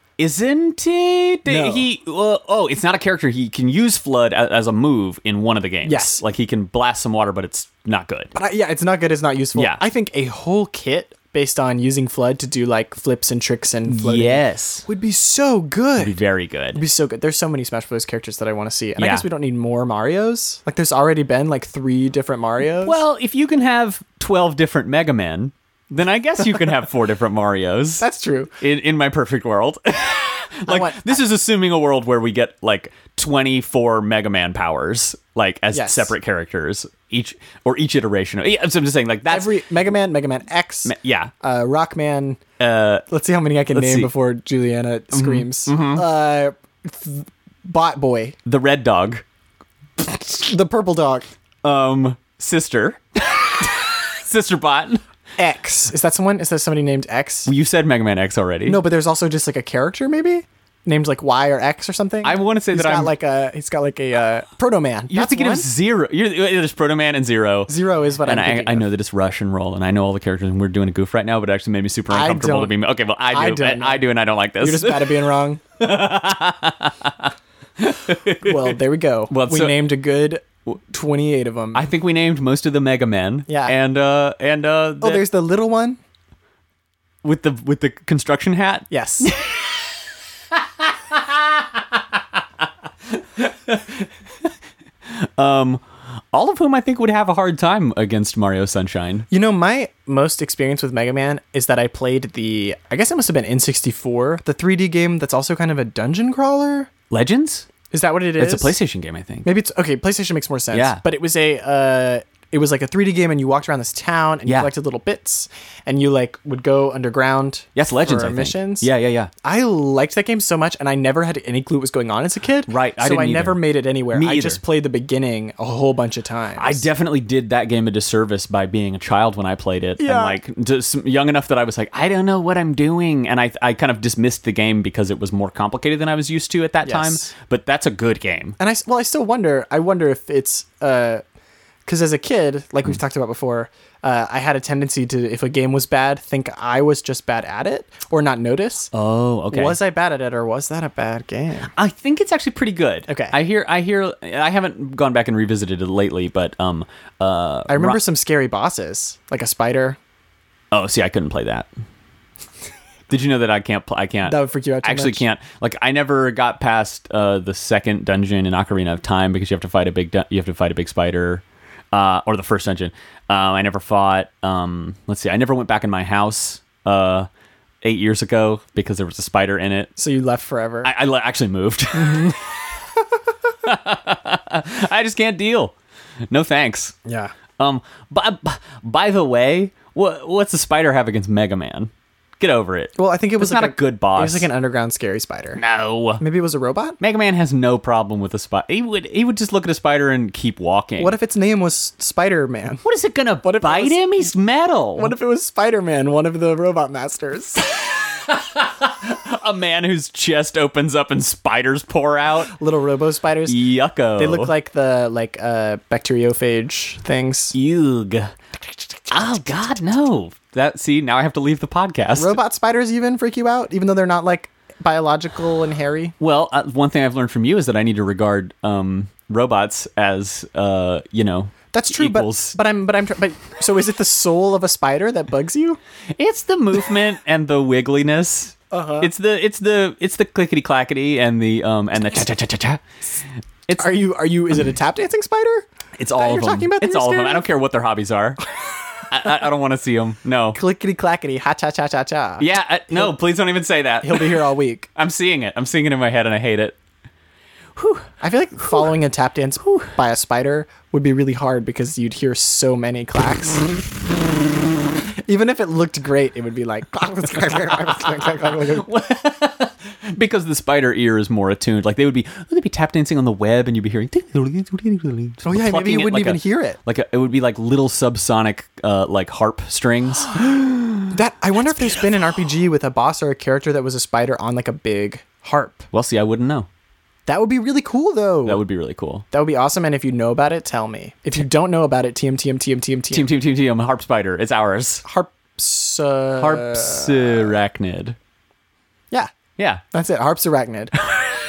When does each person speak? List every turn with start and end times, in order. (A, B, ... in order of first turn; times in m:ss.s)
0:00.2-0:08.3 A
0:01.5-0:01.9 B
0:05.8-0:06.2 B
0:08.4-0:16.2 B
0:09.6-0:09.8 A
0:13.9-0:14.9 A
0:16.0-0:16.8 A
0:16.7-0:23.0 B
0:19.0-0:19.3 A
0:22.8-0:28.0 A
0:28.0-0:28.6 B
0:28.6-0:39.6 A
0:30.7-0:31.2 B
0:35.7-0:36.1 B
0:39.3-0:42.4 B
0:40.8-0:41.3 A
0:42.6-0:43.0 A
0:43.1-0:48.4 B
0:43.7-0:44.1 A
0:45.1-0:46.0 A
0:48.4-0:49.2 A
0:50.0-0:51.3 B
0:51.6-0:55.0 A
0:55.4-0:57.5 B
0:57.5-0:58.8 A
0:58.7-1:05.7 B
1:02.2-1:03.1 A
1:05.1-1:15.3 A
1:07.7-1:08.9 B
1:12.1-1:12.8 B
1:13.3-1:14.0 B
1:14.6-1:15.6 B
1:15.8-1:18.8 A
1:18.4-1:21.9 B
1:19.3-1:19.8 A
1:21.7-1:25.2 A
1:23.5-1:23.8 B
1:25.0-1:26.0 B
1:27.2-1:29.8 A
1:28.9-1:29.3 B
1:30.5-1:32.0 A
1:33.2-1:34.5 A
1:35.1-1:39.3 A
1:39.3-1:46.9 B
1:47.1-1:47.7 A
1:47.9-1:48.8 B
1:48.4-1:49.5 A
1:49.4-1:58.9 B
1:50.7-1:51.0 A
1:57.8-1:59.3 A
1:59.4-2:06.9 B
2:02.7-2:03.6 A
2:04.1-2:04.6 A
2:06.6-2:18.6 A
2:10.0-2:10.4 B
2:16.8-2:17.3 B
2:18.6-2:21.2 B
2:21.9-2:28.9 B
2:28.9-2:29.8 A
2:29.5-2:31.7 B
2:31.7-2:38.0 A
2:33.1-2:33.4 B
2:37.7-2:40.0 B
2:40.7-2:41.7 A
2:43.1-2:57.3 A
2:44.3-2:45.2 B
2:57.8-2:59.9 A
3:00.0-3:00.9 B
3:00.8-3:02.6 A
3:02.0-3:02.4 B
3:03.6-3:05.7 A
3:06.3-3:07.0 A
3:07.0-3:07.3 B
3:07.6-3:14.5 A
3:13.0-3:15.6 B
3:15.6-3:16.2 A
3:16.2-3:17.0 B
3:17.0-3:21.2 A
3:21.0-3:22.8 B
3:22.8-3:25.1 A
3:23.4-3:24.0 B
3:25.0-3:27.7 B
3:27.8-3:32.5 A
3:32.5-3:33.6 B
3:33.5-3:34.5 A
3:34.2-3:37.6 B
3:37.5-3:38.3 A
3:39.1-3:42.4 A
3:42.2-3:46.2 B
3:46.2-3:52.6 A
3:51.7-3:55.8 B
3:56.2-4:02.8 A
3:58.7-3:59.1 B
4:03.8-4:07.5 B
4:06.0-4:08.4 A
4:09.1-4:10.6 A
4:10.5-4:13.1 B
4:12.4-4:16.8 A
4:14.0-4:14.9 B
4:17.8-4:18.1 A
4:18.2-4:23.7 B
4:18.7-4:18.9 A
4:25.3-4:28.9 B
4:27.9-4:41.2 A
4:35.4-4:36.8 B
4:41.1-4:45.9 B
4:41.7-4:42.1 A
4:45.9-4:46.7 A
4:47.3-4:48.6 B
4:48.4-4:49.2 A
4:49.3-4:53.3 B
4:53.1-4:55.0 A
4:55.0-4:57.6 B
4:56.4-4:58.2 A
4:59.6-4:59.8 A
4:59.9-5:01.0 B